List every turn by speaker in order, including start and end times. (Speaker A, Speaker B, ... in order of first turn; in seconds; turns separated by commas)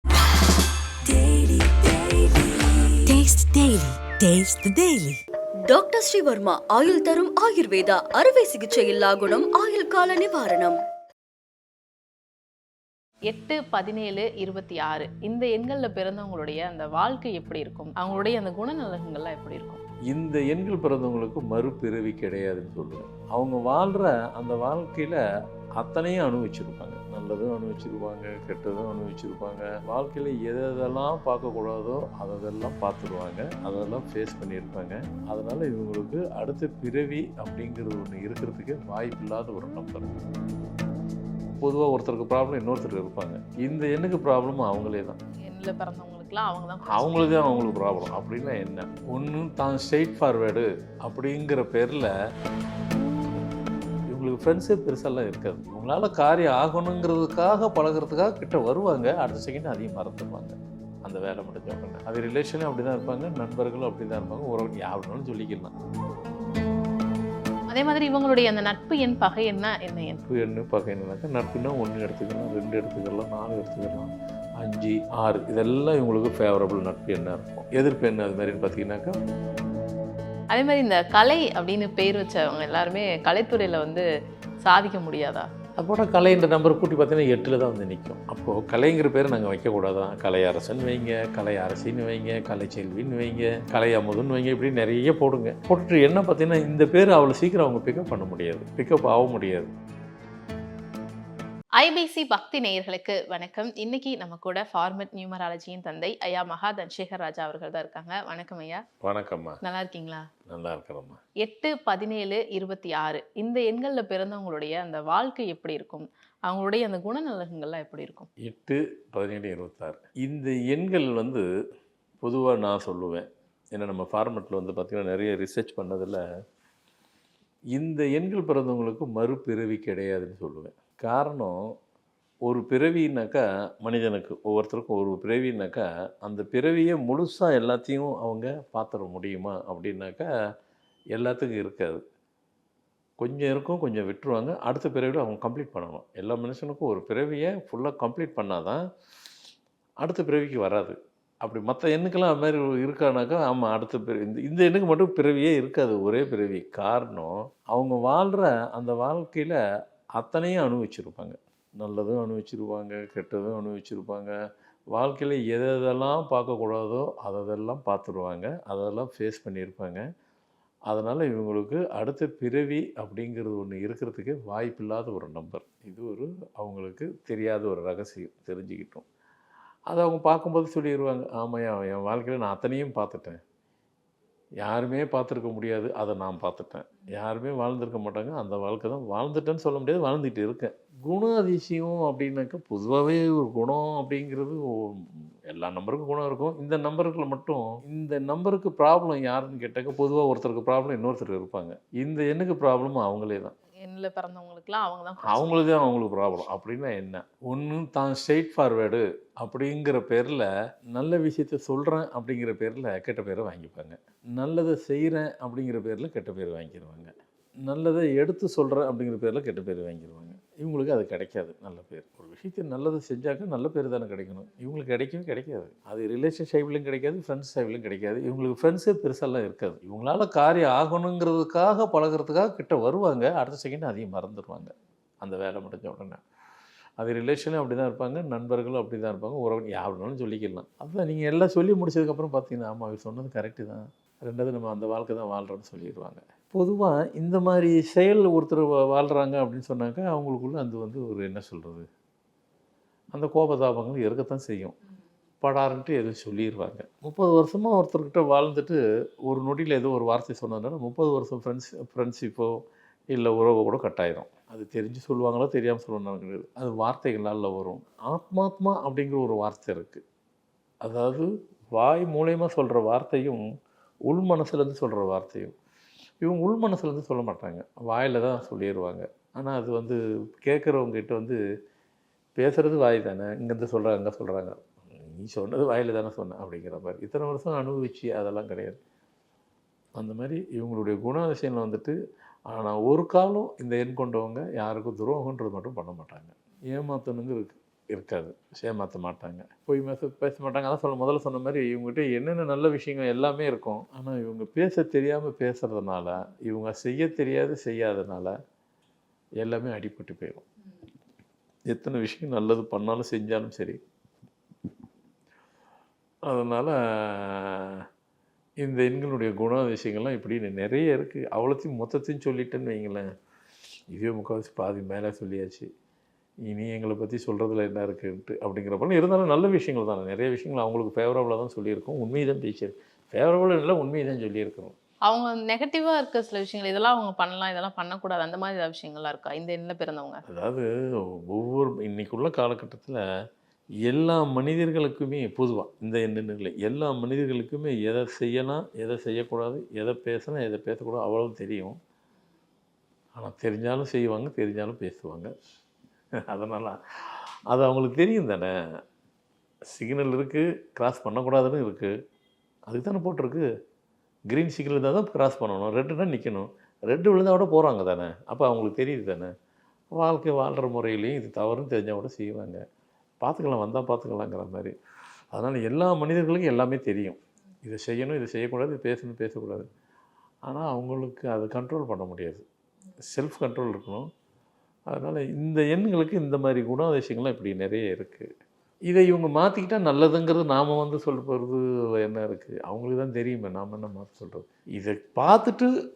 Speaker A: 1.1-2.9, Speaker B: 3.1-5.2, Speaker A: 5.7-10.8, Speaker C: 13.3-19.8, Speaker D: 20.1-25.2, Speaker D: 25.8-40.1, Speaker D: 41.6-45.2, Speaker C: 45.4-47.5, Speaker D: 46.9-52.1, Speaker D: 54.1-65.7, Speaker C: 67.7-70.2, Speaker D: 70.3-79.2, Speaker C: 80.5-84.0, Speaker C: 84.6-85.5, Speaker D: 85.8-99.7, Speaker C: 101.8-108.8, Speaker D: 109.0-109.6, Speaker C: 109.6-110.3, Speaker D: 110.5-111.2, Speaker C: 111.4-118.3, Speaker D: 118.4-121.5, Speaker D: 122.2-126.2, Speaker D: 127.7-131.7, Speaker D: 132.4-140.3, Speaker D: 141.1-142.0, Speaker D: 143.2-148.8, Speaker D: 150.0-159.6, Speaker D: 160.2-164.3, Speaker D: 164.9-170.1, Speaker D: 170.9-179.1, Speaker D: 179.9-183.4, Speaker D: 184.6-203.5, Speaker C: 203.8-205.6, Speaker D: 205.2-217.1, Speaker D: 217.6-236.2, Speaker D: 237.0-251.9, Speaker D: 253.1-254.7, Speaker D: 255.4-262.6, Speaker D: 263.1-270.0, Speaker D: 270.8-273.4, Speaker D: 274.1-275.5, Speaker D: 276.2-281.4, Speaker D: 282.4-288.8, Speaker D: 289.9-291.9, Speaker D: 292.5-308.3, Speaker D: 309.4-310.4, Speaker D: 311.7-313.8, Speaker D: 316.2-317.9, Speaker D: 318.6-323.1, Speaker D: 323.9-325.7, Speaker D: 326.4-334.8, Speaker C: 335.1-340.2, Speaker D: 340.3-343.0, Speaker D: 343.9-351.8, Speaker D: 353.1-355.3, Speaker D: 356.3-358.5, Speaker D: 359.7-361.9, Speaker D: 362.7-363.4, Speaker D: 364.3-369.3, Speaker D: 369.9-372.6, Speaker D: 373.2-374.8, Speaker D: 375.3-379.7, Speaker D: 380.5-382.4, Speaker D: 383.0-384.1, Speaker D: 384.9-388.3, Speaker D: 388.9-395.7